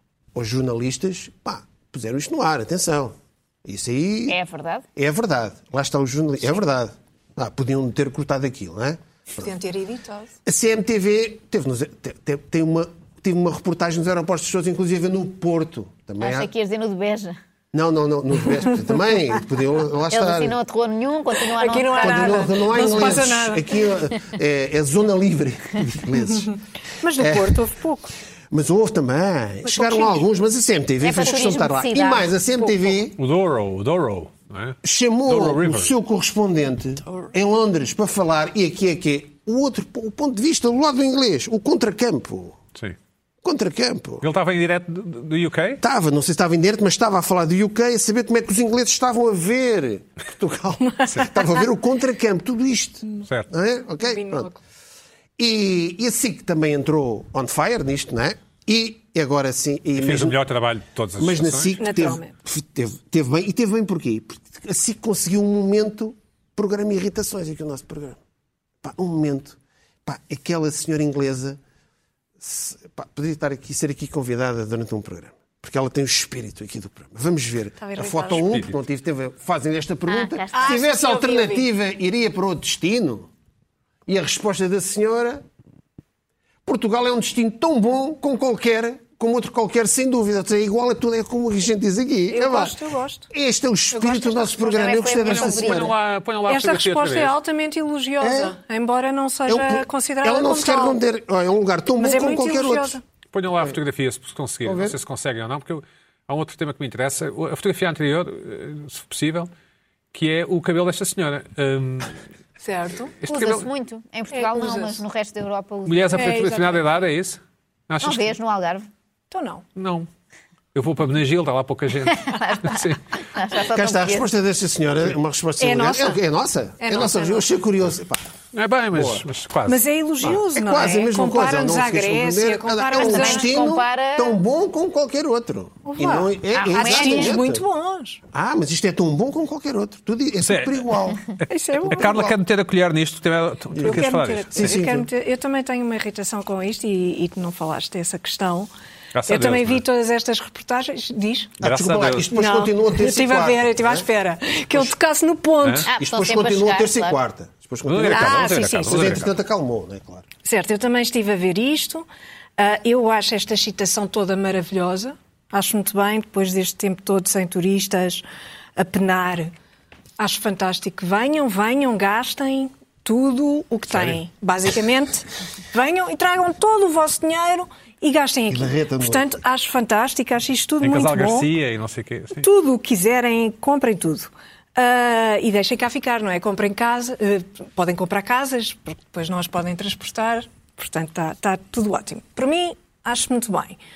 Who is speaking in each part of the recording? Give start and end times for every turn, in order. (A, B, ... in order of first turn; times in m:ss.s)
0:00.4-0:04.4 A
0:04.3-0:04.8 B
0:05.0-0:09.5 A
0:09.4-0:10.3 C
0:10.4-0:16.5 A
0:16.2-0:17.4 B
0:17.7-0:20.6 A
0:20.1-0:23.1 B
0:21.5-0:23.7 C
0:22.0-0:26.6 A
0:27.0-0:28.1 C
0:27.2-0:27.6 A
0:28.5-0:33.2 A
0:29.6-0:30.2 C
0:31.0-0:32.3 B
0:32.6-0:33.0 C
0:33.2-0:35.9 D
0:34.8-0:42.6 A
0:43.4-0:44.2 A
0:44.2-0:45.8 D
0:45.8-0:54.5 A
0:50.9-0:51.5 C
0:54.0-0:54.6 C
0:55.4-1:00.4 A
1:00.0-1:01.8 D
1:01.2-1:08.2 A
1:01.8-1:02.3 C
1:08.8-1:11.6 A
1:12.4-1:23.3 A
1:17.8-1:18.5 C
1:18.3-1:18.8 D
1:20.1-1:20.8 B
1:20.5-1:21.7 C
1:24.1-1:25.4 A
1:26.6-1:32.8 A
1:32.3-1:33.3 C
1:33.3-1:35.9 A
1:33.9-1:35.7 C
1:34.6-1:35.9 B
1:35.6-1:37.4 D
1:36.5-1:41.0 C
1:38.2-1:38.6 A
1:39.5-1:43.0 A
1:42.0-1:43.0 C
1:43.3-1:49.5 D
1:44.6-1:45.0 A
1:50.1-1:52.2 D
1:52.6-1:53.2 C
1:53.2-1:53.7 D
1:53.3-1:56.4 B
1:54.3-1:55.0 C
1:55.9-1:58.3 D
1:56.1-1:56.8 C
1:58.0-1:58.9 B
1:59.3-1:59.7 C
1:59.8-2:00.1 D
2:00.8-2:03.0 D
2:02.2-2:04.3 B
2:03.6-2:08.3 A
2:05.6-2:06.2 C
2:06.8-2:07.5 C
2:08.5-2:09.8 D
2:08.9-2:09.2 A
2:09.7-2:13.6 C
2:10.2-2:17.6 A
2:13.0-2:14.4 B
2:15.8-2:18.2 C
2:16.5-2:17.4 B
2:18.3-2:22.4 A
2:20.4-2:24.8 D
2:21.5-2:22.2 C
2:23.7-2:24.0 A
2:23.8-2:28.7 C
2:24.5-2:25.1 A
2:29.1-2:29.8 D
2:29.3-2:31.6 C
2:31.6-2:32.3 D
2:31.6-2:34.1 A
2:32.3-2:35.9 C
2:35.9-2:37.2 B
2:36.0-2:40.2 A
2:37.8-2:39.3 D
2:38.0-2:39.2 C
2:40.4-2:42.1 C
2:42.6-2:48.2 C
2:48.8-2:49.5 C
2:50.2-3:01.5 C
2:53.9-2:54.2 D
2:58.5-2:59.3 A
3:00.8-3:02.5 D
3:02.4-3:13.8 C